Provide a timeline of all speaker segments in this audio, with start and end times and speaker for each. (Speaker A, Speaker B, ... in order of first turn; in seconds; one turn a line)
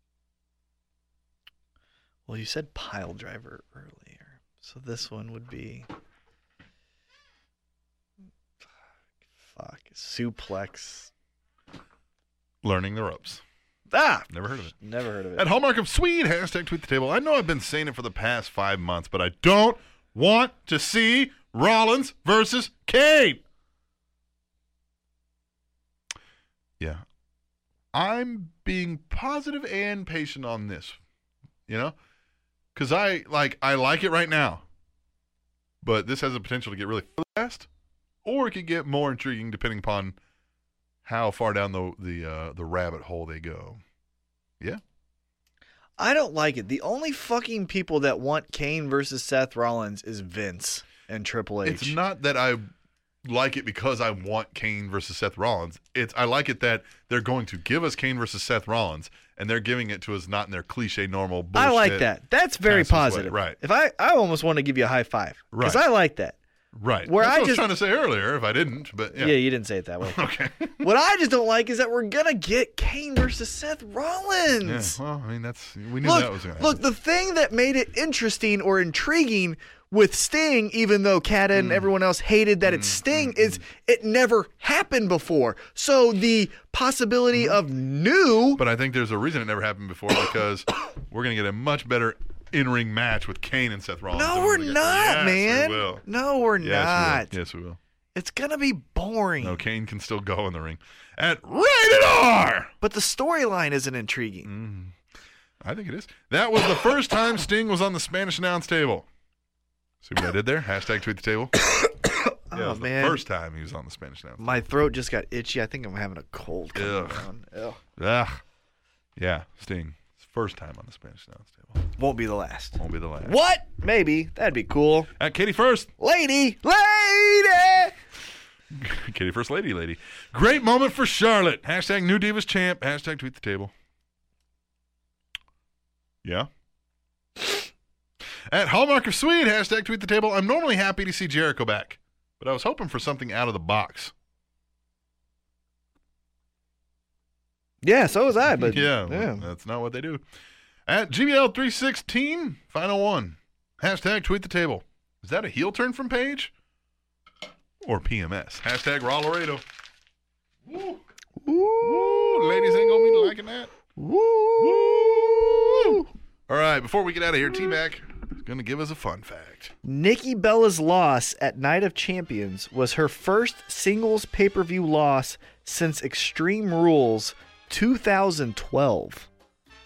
Speaker A: 2.3-5.9
Speaker A: 9.5-11.1
Speaker B: 12.6-13.4
Speaker A: 13.9-15.5
Speaker B: 14.3-14.7
Speaker B: 15.3-23.4
Speaker B: 27.9-31.0
Speaker B: 31.7-31.9
Speaker B: 32.7-34.6
Speaker B: 35.8-37.7
Speaker B: 38.2-40.1
Speaker B: 41.0-43.8
Speaker A: 46.0-51.9
Speaker B: 51.6-52.7
Speaker B: 53.2-62.0
Speaker A: 61.5-66.4
Speaker B: 62.7-63.6
Speaker B: 65.5-65.8
Speaker B: 66.7-69.4
Speaker A: 67.0-67.6
Speaker A: 69.1-70.2
Speaker B: 70.0-70.9
Speaker A: 70.8-75.0
Speaker B: 74.6-76.8
Speaker A: 76.0-88.6
Speaker B: 81.5-81.9
Speaker B: 82.6-83.6
Speaker B: 87.3-87.6
Speaker B: 88.5-96.0
Speaker A: 94.1-97.3
Speaker B: 96.6-97.8
Speaker A: 98.1-99.6
Speaker B: 99.4-102.7
Speaker A: 102.8-104.5
Speaker B: 104.4-105.0
Speaker B: 105.6-109.1
Speaker B: 110.0-111.5
Speaker A: 111.7-113.2
Speaker B: 112.5-114.5
Speaker A: 114.4-117.8
Speaker B: 116.8-117.3
Speaker B: 118.0-118.4
Speaker B: 119.2-121.9
Speaker A: 122.0-125.1
Speaker B: 122.8-123.3
Speaker B: 125.2-125.9
Speaker A: 126.0-127.9
Speaker B: 128.7-133.7
Speaker B: 136.2-136.5
Speaker B: 138.5-144.1
Speaker A: 147.8-149.5
Speaker B: 148.5-150.2
Speaker B: 150.9-156.5
Speaker B: 157.8-159.6
Speaker B: 160.7-161.0
Speaker A: 161.4-163.3
Speaker B: 161.8-163.7
Speaker A: 163.9-166.1
Speaker B: 164.6-169.7
Speaker A: 169.8-179.3